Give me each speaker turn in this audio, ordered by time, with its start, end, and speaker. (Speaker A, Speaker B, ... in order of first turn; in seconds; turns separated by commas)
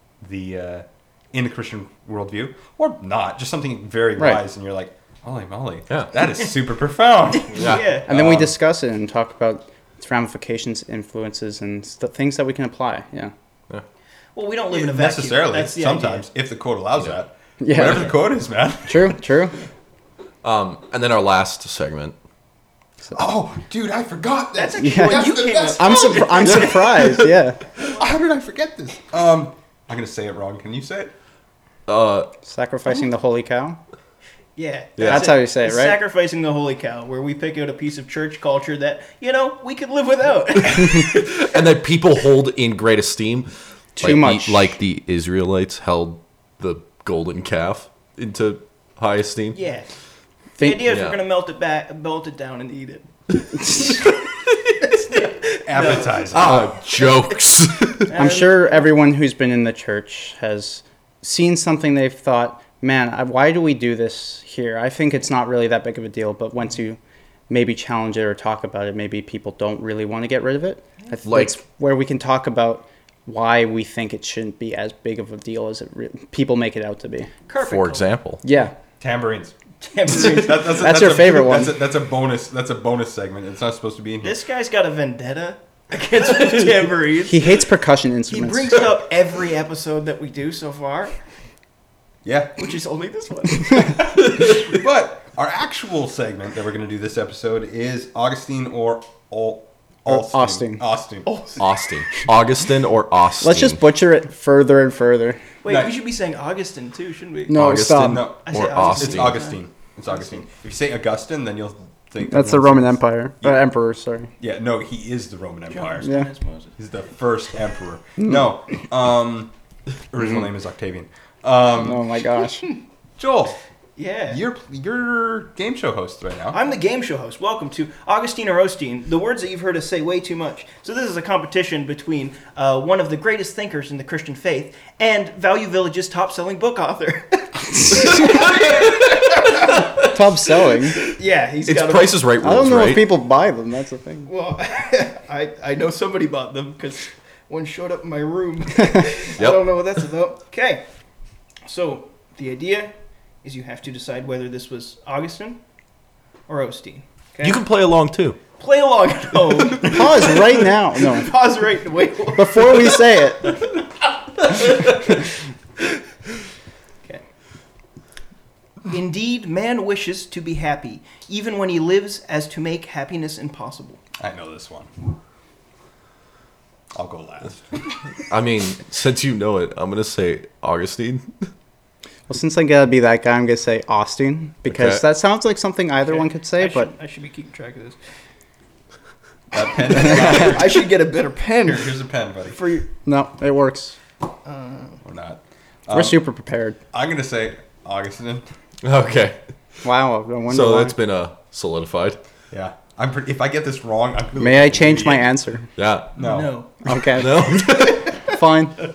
Speaker A: 0.2-8.5, Speaker B: 4.2-4.4, Speaker C: 7.5-8.1, Speaker D: 7.5-8.4, Speaker B: 8.1-13.3, Speaker C: 14.3-16.3, Speaker A: 14.7-19.2, Speaker B: 17.6-18.1, Speaker B: 18.8-19.5, Speaker D: 20.4-22.1, Speaker A: 23.1-26.4, Speaker C: 24.5-27.0, Speaker B: 24.8-27.6, Speaker D: 26.4-27.3, Speaker A: 27.9-31.1, Speaker D: 31.9-32.3, Speaker B: 32.4-33.8, Speaker C: 34.5-41.5, Speaker D: 35.0-35.3, Speaker B: 35.0-36.0, Speaker D: 40.8-49.6, Speaker B: 44.0-44.8, Speaker C: 49.5-49.9, Speaker B: 50.6-50.8, Speaker C: 50.6-54.1, Speaker D: 50.8-51.2, Speaker C: 54.8-56.3, Speaker A: 55.6-56.7, Speaker D: 56.3-58.1, Speaker C: 58.0-58.8, Speaker B: 58.1-77.3, Speaker D: 71.2-71.6, Speaker C: 77.5-78.1, Speaker D: 77.6-78.4, Speaker B: 78.4-78.7, Speaker A: 79.0-79.5, Speaker C: 79.8-80.7, Speaker A: 80.1-84.4, Speaker B: 80.6-81.8, Speaker C: 84.2-87.5, Speaker B: 87.2-88.9, Speaker C: 88.3-91.2, Speaker A: 92.2-92.6, Speaker C: 92.6-94.0, Speaker A: 94.0-101.3, Speaker B: 100.1-100.8, Speaker C: 101.2-101.6, Speaker D: 101.6-103.8, Speaker B: 103.4-105.4, Speaker C: 105.6-107.8, Speaker A: 105.7-105.9, Speaker B: 107.5-108.4, Speaker D: 107.5-109.4, Speaker A: 107.9-113.6, Speaker C: 108.4-109.6, Speaker B: 112.2-114.3, Speaker A: 114.4-116.1, Speaker C: 115.7-116.7, Speaker A: 116.8-119.5, Speaker A: 120.1-122.0, Speaker B: 121.8-122.7, Speaker A: 123.2-123.6, Speaker C: 124.0-124.4, Speaker A: 124.3-126.6, Speaker C: 126.5-138.9, Speaker D: 138.1-139.9, Speaker B: 140.0-141.0, Speaker C: 141.0-142.2, Speaker D: 141.7-143.1, Speaker B: 142.4-144.3, Speaker C: 144.3-150.8, Speaker D: 149.4-149.8, Speaker C: 151.7-155.6, Speaker C: 156.5-157.6, Speaker D: 157.4-158.4, Speaker C: 158.6-163.8, Speaker B: 159.8-161.3, Speaker B: 162.3-163.6, Speaker C: 164.4-165.0, Speaker C: 168.9-174.0, Speaker A: 174.2-174.9, Speaker A: 176.9-177.8, Speaker D: 178.3-181.5, Speaker B: 182.3-186.9, Speaker D: 184.7-185.0, Speaker C: 186.0-188.0, Speaker A: 189.5-190.9, Speaker C: 189.9-191.9, Speaker A: 191.6-192.6, Speaker C: 192.5-192.9, Speaker B: 193.1-194.0, Speaker C: 194.4-195.0, Speaker A: 195.0-196.2, Speaker B: 195.9-196.8, Speaker A: 196.9-198.4, Speaker D: 198.8-199.4, Speaker B: 199.8-200.9, Speaker D: 200.5-202.2, Speaker A: 202.5-205.3, Speaker B: 204.4-205.7, Speaker D: 205.8-206.2, Speaker A: 206.2-206.6, Speaker C: 206.2-206.7, Speaker B: 206.8-207.6, Speaker D: 207.0-208.2, Speaker B: 208.2-208.8